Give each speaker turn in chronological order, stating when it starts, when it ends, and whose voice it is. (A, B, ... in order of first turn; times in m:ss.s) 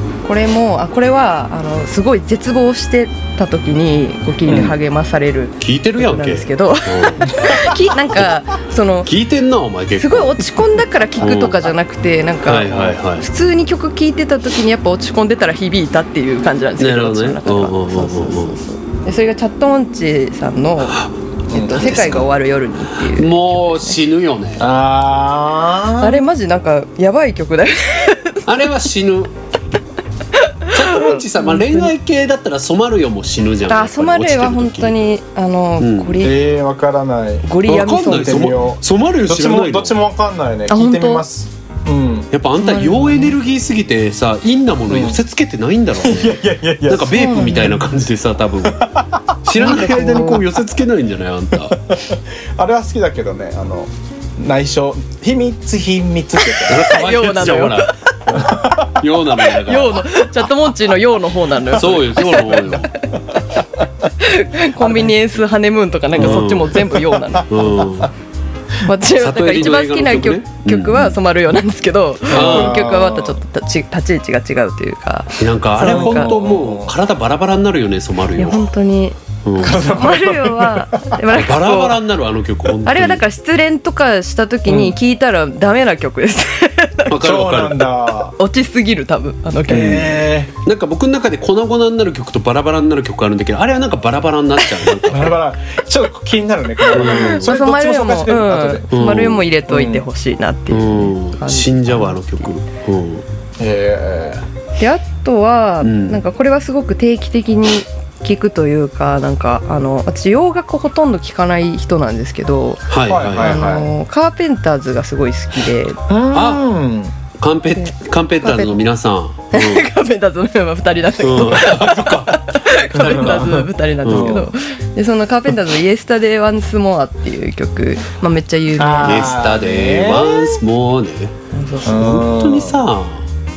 0:00.2-0:09.1 A
0:04.5-0:04.7 B
0:05.6-0:07.3 C
0:09.0-0:10.6 C
0:10.0-0:24.0 A
0:11.2-0:11.7 C
0:12.4-0:13.2 C
0:16.8-0:18.6 C
0:21.5-0:22.0 B
0:21.7-0:22.3 C
0:23.0-0:24.7 C
0:24.6-0:26.2 B
0:26.0-0:28.4 A
0:28.4-0:29.3 C
0:30.4-0:31.9 A
0:30.7-0:35.0 C
0:33.7-0:36.4 A
0:35.8-0:36.2 C
0:36.2-0:42.3 B
0:37.4-0:38.6 A
0:37.6-0:40.0 C
0:40.7-0:41.2 A
0:42.3-0:48.9 C
0:42.6-0:43.4 A
0:44.9-0:45.2 B
0:45.9-0:47.6 B
0:47.1-0:47.8 A
0:48.6-0:50.5 B
0:49.4-0:51.9 C
0:49.6-0:50.4 A
0:51.6-0:56.9 B
0:56.6-0:57.9 A
0:56.6-1:00.1 C
0:58.3-0:59.0 B
0:59.4-1:03.4 A
1:01.7-1:02.9 C
1:04.2-1:07.8 A
1:04.8-1:05.2 B
1:06.2-1:06.9 C
1:06.2-1:08.0 B
1:07.5-1:08.1 C
1:08.8-1:16.4 A
1:09.2-1:11.2 C
1:12.3-1:13.4 B
1:12.3-1:12.9 C
1:15.4-1:18.7 C
1:15.8-1:16.9 B
1:18.3-1:22.0 A
1:19.4-1:19.8 C
1:19.6-1:21.2 B
1:21.3-1:23.2 C
1:22.8-1:27.3 A
1:24.7-1:25.0 B
1:27.1-1:27.9 C
1:27.2-1:28.4 B
1:28.4-1:30.3 A
1:29.7-1:30.5 B
1:30.6-1:35.4 C
1:35.1-1:39.0 B
1:36.9-1:42.5 A
1:36.9-1:37.5 C
1:38.9-1:39.4 C
1:39.7-1:40.0 B
1:40.7-1:43.2 C
1:43.6-1:44.4 B
1:44.8-1:56.0 A
1:45.8-1:46.2 C
1:52.9-1:53.7 C
1:53.1-1:53.9 B
1:56.1-1:57.1 B
1:56.3-1:56.6 C
1:57.4-1:59.9 C
1:57.8-1:58.8 A
1:59.5-2:09.4 A
2:01.2-2:02.4 C
2:02.9-2:03.4 C
2:02.9-2:04.5 B
2:04.0-2:04.4 C
2:08.8-2:10.6 B
2:09.0-2:13.2 C
2:11.5-2:12.2 A
2:11.8-2:12.8 B